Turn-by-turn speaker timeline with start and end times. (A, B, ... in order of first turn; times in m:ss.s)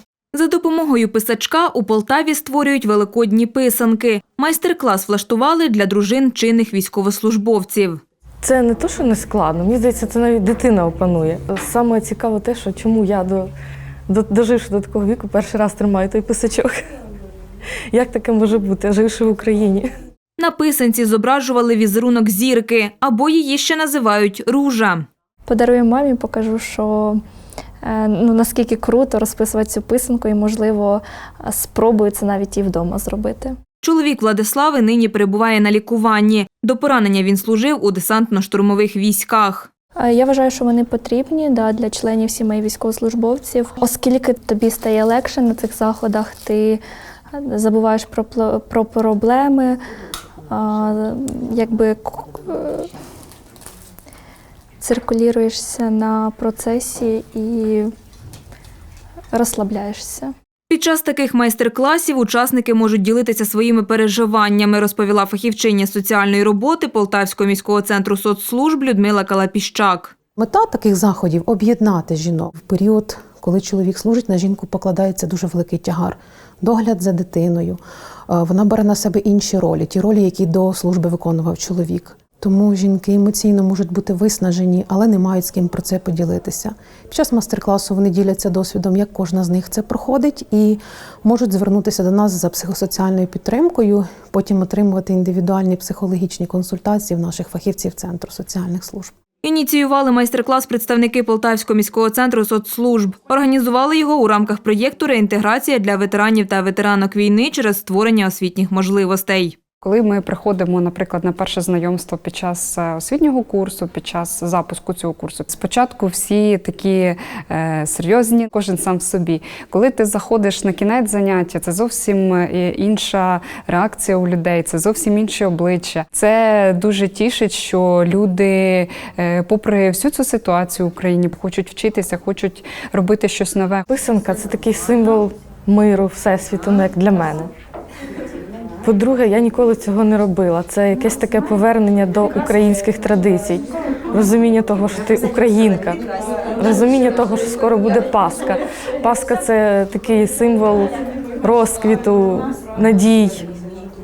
0:00.3-0:08.0 A
0:08.4-0:13.5 B
0:14.1-0:16.8 B
0:17.9-0:19.9 B
0:20.4-0:25.1 A
0:25.5-0:27.2 C
0:27.8-0:33.6 C
0:33.8-0:39.7 A
0:40.0-0:46.8 C
0:47.3-0:49.8 C
0:50.5-0:52.9 C
0:54.8-0:57.9 C
0:59.3-1:00.3 C
1:00.7-1:10.1 A
1:10.4-1:39.1 D
1:39.4-1:49.6 A
1:49.8-2:13.8 E
2:13.9-2:17.5 B
2:18.8-2:26.0 B
2:26.6-2:33.5 B